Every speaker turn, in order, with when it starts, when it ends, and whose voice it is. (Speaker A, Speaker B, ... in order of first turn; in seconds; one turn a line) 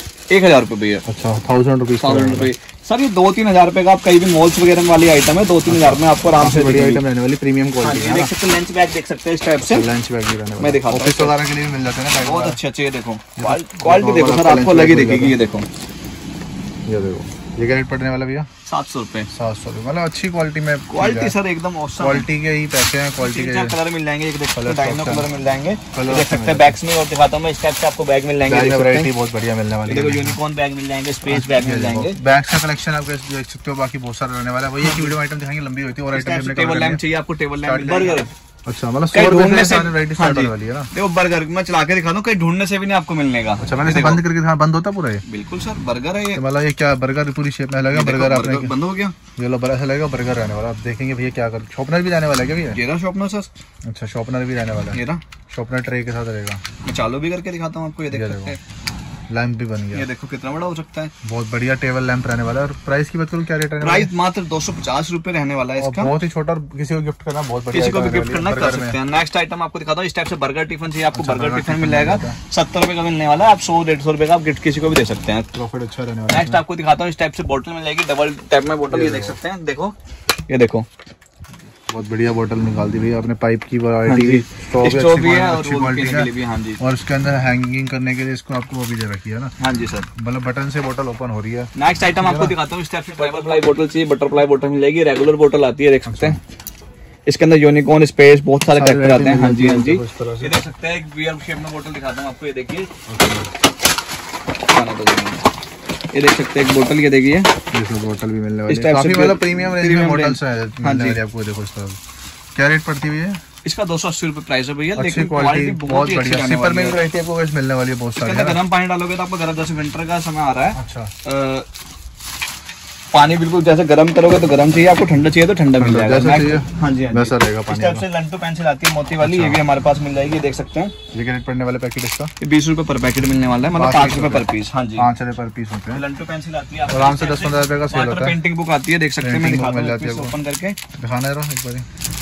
Speaker A: 0.3-1.0
Speaker B: 1.1-2.5
Speaker A: 2.0-7.0
Speaker B: 5.7-8.3
Speaker A: 7.8-9.8
Speaker B: 9.6-12.6
Speaker A: 10.6-11.4
Speaker A: 12.2-15.7
Speaker B: 13.3-15.4
Speaker B: 16.9-18.5
Speaker A: 18.7-19.3
Speaker B: 19.3-21.3
Speaker A: 20.9-22.3
Speaker B: 22.0-23.8
Speaker A: 23.2-29.1
Speaker B: 24.5-25.3
Speaker B: 25.9-26.8
Speaker B: 28.4-30.4
Speaker A: 29.9-32.2
Speaker B: 31.3-37.0
Speaker A: 34.8-35.2
Speaker A: 36.1-38.3
Speaker B: 37.6-40.9
Speaker A: 39.1-44.2
Speaker B: 43.6-45.2
Speaker A: 45.2-46.4
Speaker B: 46.3-48.7
Speaker A: 47.9-49.1
Speaker B: 49.3-52.8
Speaker A: 52.7-53.5
Speaker B: 53.9-56.6
Speaker A: 54.9-55.2
Speaker A: 56.8-58.6
Speaker B: 58.1-58.5
Speaker B: 59.3-60.1
Speaker A: 59.9-61.1
Speaker B: 61.2-64.1
Speaker A: 63.8-66.1
Speaker B: 65.8-69.0
Speaker A: 67.7-75.5
Speaker B: 71.1-72.4
Speaker B: 75.5-76.6
Speaker A: 76.3-79.9
Speaker B: 78.9-79.4
Speaker A: 80.5-80.8
Speaker B: 81.9-89.5
Speaker A: 84.0-86.8
Speaker A: 89.6-90.1
Speaker B: 90.1-92.5
Speaker A: 91.7-96.4
Speaker B: 93.2-93.6
Speaker B: 96.1-96.4
Speaker A: 97.2-102.9
Speaker B: 98.7-100.6
Speaker B: 103.1-103.5
Speaker A: 104.7-105.4
Speaker A: 106.1-107.5
Speaker B: 107.7-112.0
Speaker A: 108.7-111.2
Speaker B: 112.5-113.4
Speaker A: 113.6-117.0
Speaker B: 115.0-118.6
Speaker A: 118.2-121.7
Speaker B: 120.7-121.1
Speaker A: 123.1-130.9
Speaker B: 125.8-128.1
Speaker B: 129.2-129.6
Speaker B: 131.1-132.3
Speaker A: 132.4-135.1
Speaker B: 133.7-136.0
Speaker A: 135.9-140.8
Speaker B: 136.9-138.4
Speaker B: 139.2-140.3
Speaker B: 140.9-141.8